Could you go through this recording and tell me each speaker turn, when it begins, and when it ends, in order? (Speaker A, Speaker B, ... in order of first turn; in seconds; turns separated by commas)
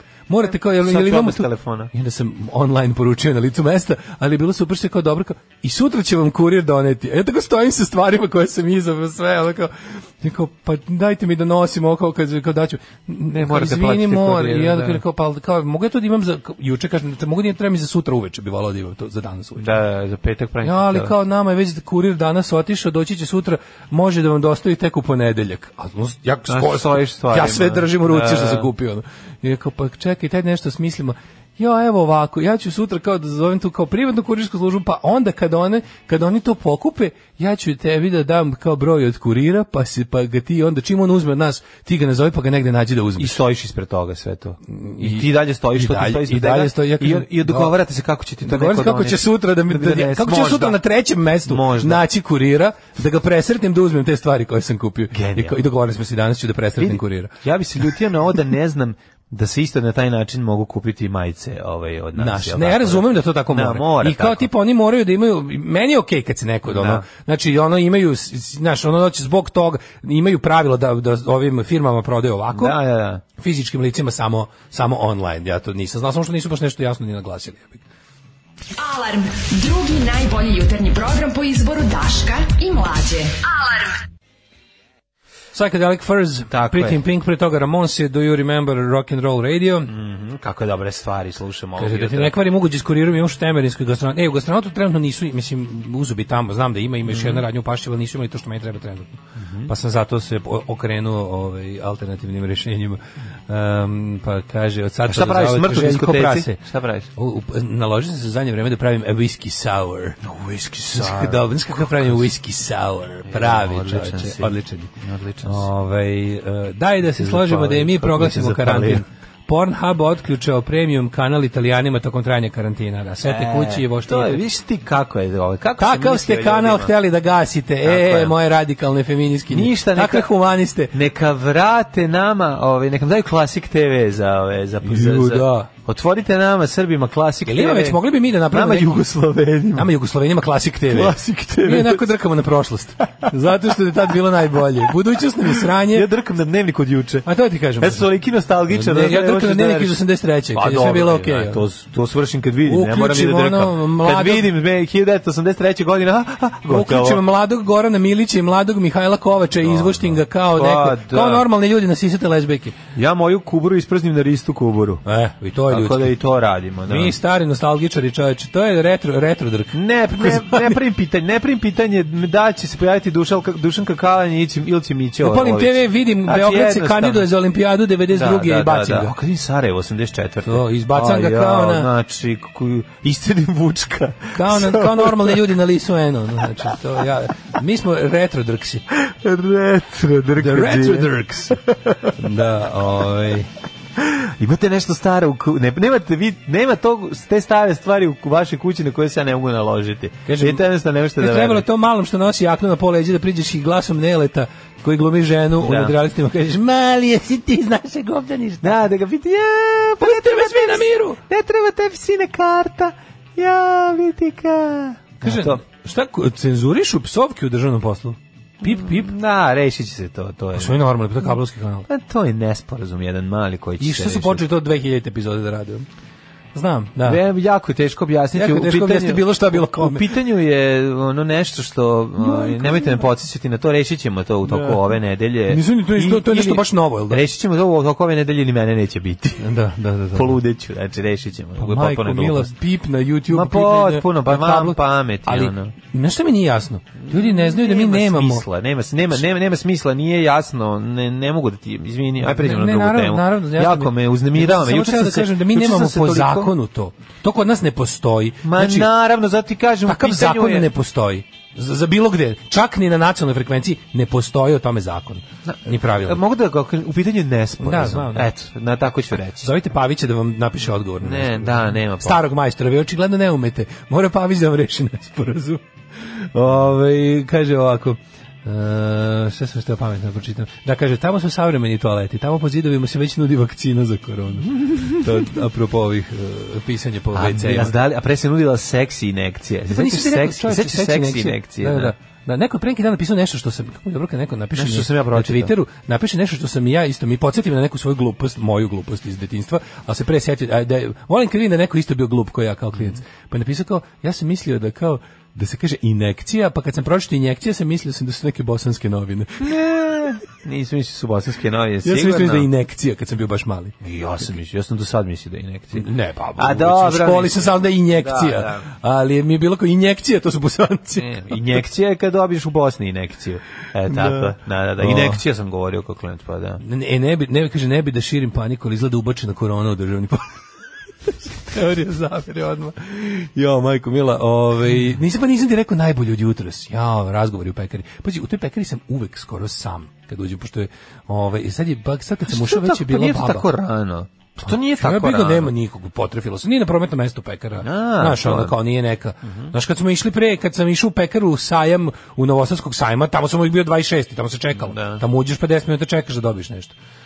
Speaker A: 0.3-19.7, Speaker B: 0.5-1.9, Speaker B: 13.3-15.0, Speaker B: 19.6-21.1, Speaker A: 20.6-43.4, Speaker B: 26.5-28.7, Speaker B: 43.2-50.8, Speaker A: 44.7-47.7, Speaker A: 48.4-57.3, Speaker B: 51.5-52.0, Speaker B: 55.1-55.6, Speaker B: 56.8-64.5, Speaker A: 62.1-72.8, Speaker B: 66.7-67.0, Speaker B: 72.5-73.2, Speaker A: 73.4-77.8, Speaker C: 78.8-84.0, Speaker A: 85.5-89.9, Speaker B: 86.5-87.0, Speaker B: 89.8-92.4, Speaker A: 91.8-106.6, Speaker B: 97.1-97.4, Speaker B: 99.3-99.7, Speaker B: 105.1-107.1, Speaker A: 107.2-110.2, Speaker B: 110.2-112.3, Speaker A: 110.9-114.9, Speaker B: 113.2-115.7, Speaker A: 115.4-124.4, Speaker B: 117.0-119.0, Speaker B: 123.2-126.9, Speaker A: 125.8-130.9, Speaker B: 127.8-128.3, Speaker B: 129.5-130.3, Speaker B: 130.9-139.9, Speaker A: 134.8-135.7, Speaker A: 137.4-139.0, Speaker A: 139.8-146.1, Speaker B: 140.9-142.1, Speaker B: 145.5-147.3, Speaker A: 147.2-148.1, Speaker B: 147.8-150.0, Speaker A: 148.7-151.6, Speaker B: 150.5-157.2, Speaker A: 152.7-154.5, Speaker A: 156.7-162.8, Speaker B: 159.6-161.4, Speaker B: 162.9-165.0, Speaker A: 165.0-166.1, Speaker B: 165.7-167.1, Speaker A: 166.9-170.8, Speaker B: 169.7-177.3, Speaker A: 175.2-179.1, Speaker B: 178.1-185.4, Speaker A: 180.4-181.9, Speaker A: 184.3-188.8, Speaker B: 188.9-192.1, Speaker A: 190.4-191.6, Speaker A: 192.1-193.5, Speaker B: 194.0-201.6, Speaker A: 200.2-200.6, Speaker A: 201.2-208.8, Speaker B: 205.6-205.9, Speaker B: 208.6-215.6, Speaker A: 210.0-211.2, Speaker A: 215.2-219.1, Speaker B: 218.6-221.3, Speaker A: 220.5-221.9, Speaker B: 221.9-224.4, Speaker A: 223.8-225.8, Speaker A: 226.5-227.2, Speaker B: 227.0-239.5, Speaker A: 228.3-230.1, Speaker A: 232.2-233.0, Speaker A: 234.4-234.8, Speaker A: 235.5-237.2, Speaker A: 239.4-240.4, Speaker B: 240.1-242.5, Speaker A: 241.6-248.4, Speaker B: 243.3-245.7, Speaker B: 247.0-256.5, Speaker A: 252.2-258.9, Speaker B: 258.4-260.7, Speaker A: 259.9-266.2, Speaker B: 265.4-269.5, Speaker A: 267.6-268.3, Speaker A: 269.4-287.7, Speaker B: 271.0-272.2, Speaker B: 276.4-276.6, Speaker B: 284.6-285.2, Speaker B: 287.1-291.9, Speaker A: 289.7-309.5, Speaker B: 294.5-295.5, Speaker B: 309.4-312.5, Speaker A: 311.8-313.7, Speaker B: 313.8-318.6, Speaker A: 315.7-321.6, Speaker B: 320.9-326.6, Speaker A: 323.9-325.2, Speaker A: 326.6-330.3, Speaker A: 331.1-343.4, Speaker B: 342.3-345.5, Speaker A: 344.4-356.7, Speaker B: 347.6-348.6, Speaker B: 349.2-349.5, Speaker B: 354.5-355.0